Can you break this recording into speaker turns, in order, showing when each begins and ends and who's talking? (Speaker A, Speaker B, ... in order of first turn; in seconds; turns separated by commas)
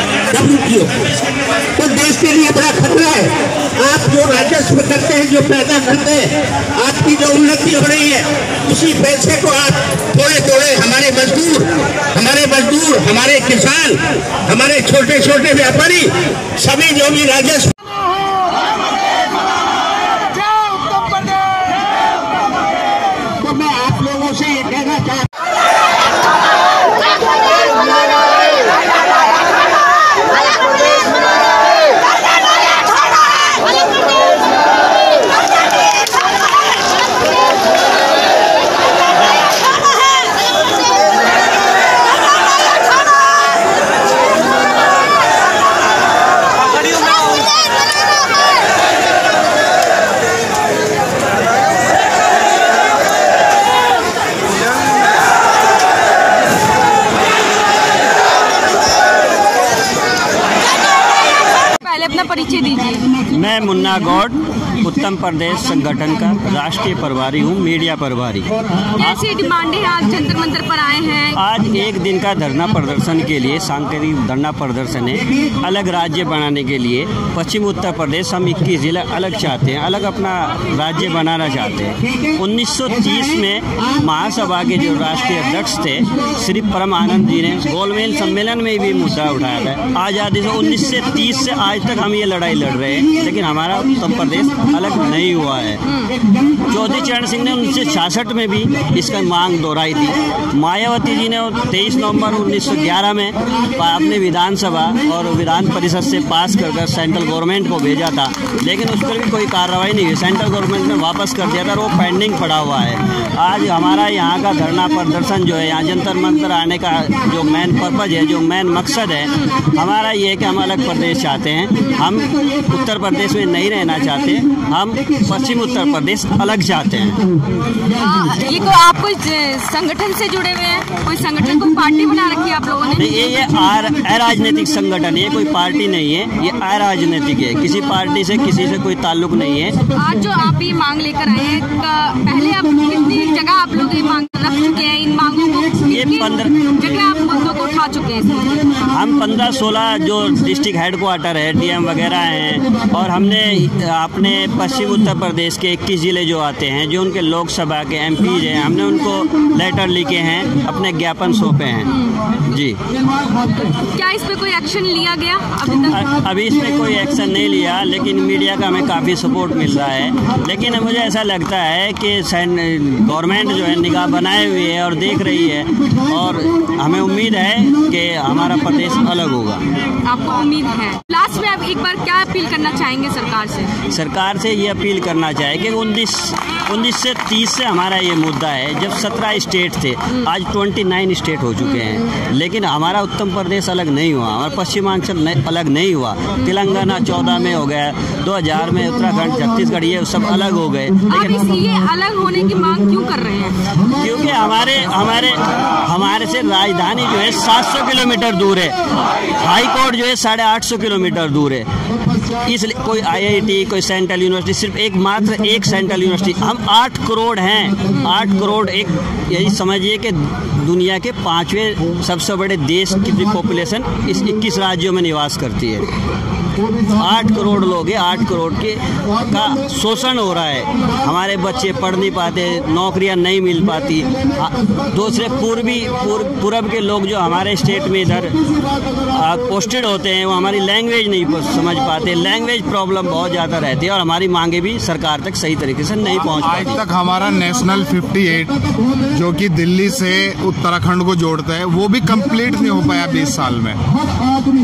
Speaker A: 0.3-1.1, Speaker A: 1.8-17.8, Speaker A: 23.4-25.2, Speaker B: 61.6-63.1, Speaker C: 63.3-69.2, Speaker B: 69.0-71.4, Speaker C: 71.3-96.0, Speaker C: 96.7-127.2, Speaker B: 127.9-133.2, Speaker C: 133.0-139.8, Speaker B: 139.9-148.7, Speaker C: 145.9-146.8, Speaker C: 148.9-162.8, Speaker B: 163.7-166.1, Speaker C: 165.9-179.6, Speaker B: 180.0-183.7, Speaker C: 183.9-201.4, Speaker B: 201.1-203.7, Speaker C: 203.9-208.8, Speaker C: 209.4-211.7, Speaker C: 212.3-225.9, Speaker C: 226.8-238.4, Speaker C: 239.1-246.8, Speaker D: 246.5-253.8